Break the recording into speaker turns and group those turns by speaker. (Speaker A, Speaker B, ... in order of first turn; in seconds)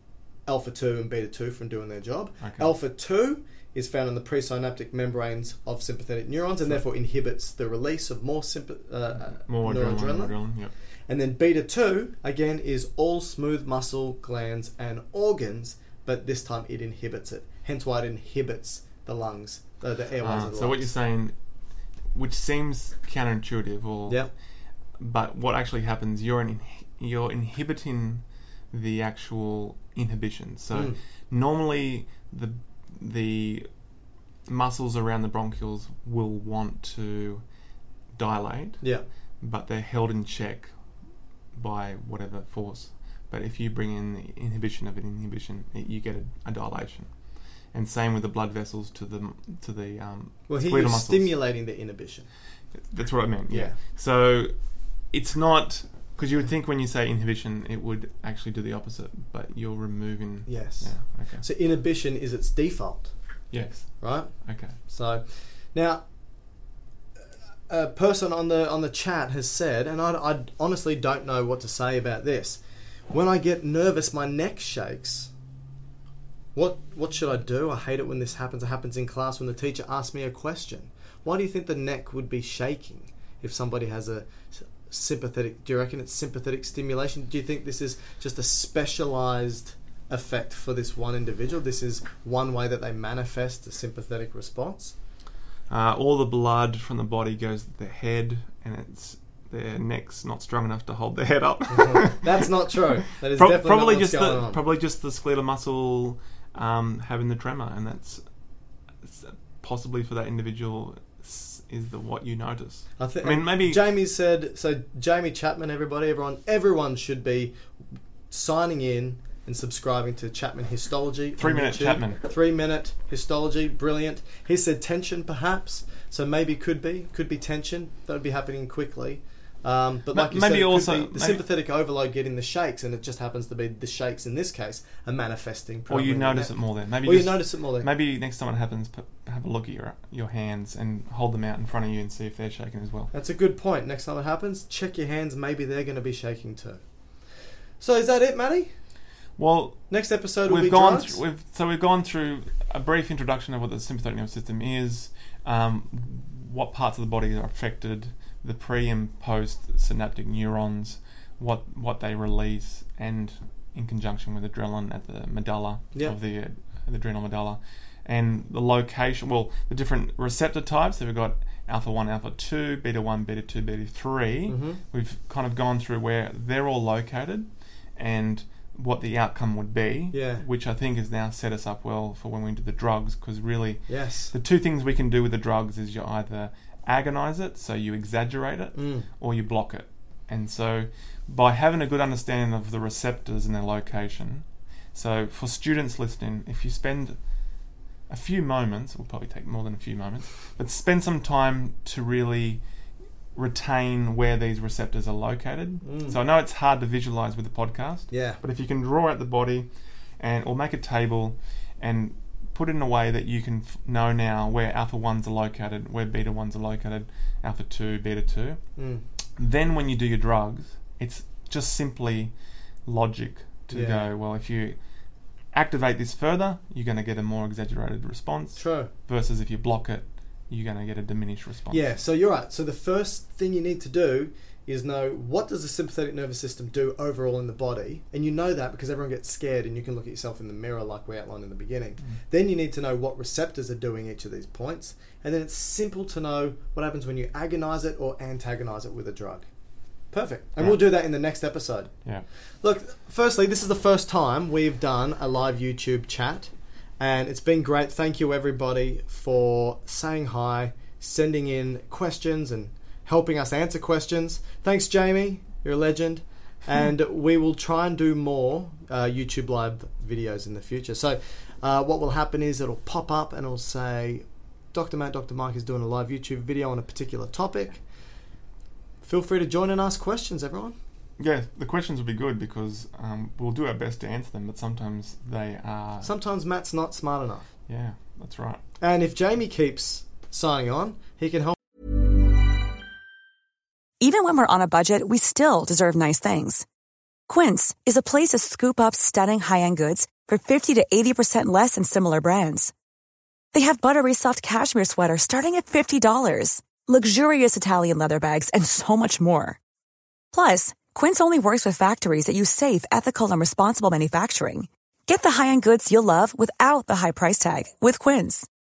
Speaker A: 0.5-10.4, 11.1-20.9, 24.1-24.3, 30.7-31.0, 50.5-52.3, 53.5-53.8, 60.5-63.1, 64.0-64.3, 64.8-66.0, 67.7-75.3, 76.5-94.9, 101.7-104.6, 113.0-117.6, 118.3-137.9, 143.1-146.8, 147.8-148.7, 149.9-151.2, 174.5-174.8, 180.1-180.4, 183.9-184.3, 188.8-189.1, 205.8-206.2, 208.1-208.4, 218.8-219.0, 223.7-224.1, 228.6-228.9, 231.7-249.5, 250.1-251.9, 252.6-277.8, 279.0-280.8, 286.0-287.5, 288.8-291.6
Speaker B: 2.4-2.7, 9.3-10.7, 20.2-21.3, 22.1-24.3, 25.0-33.7, 34.5-37.4, 38.1-38.9, 39.4-40.7, 41.5-47.1, 47.7-51.3, 52.9-54.5, 55.1-61.4, 63.5-64.8, 95.7-102.4, 103.2-108.2, 109.0-113.8, 121.4-122.2, 130.1-131.4, 135.9-143.1, 149.4-197.2, 198.1-202.6, 203.3-218.6, 219.4-222.3, 222.8-224.8, 225.5-231.8, 281.2-286.1, 287.7-288.6
Speaker C: 294.0-296.6, 297.3-302.7, 303.5-309.6, 310.3-318.5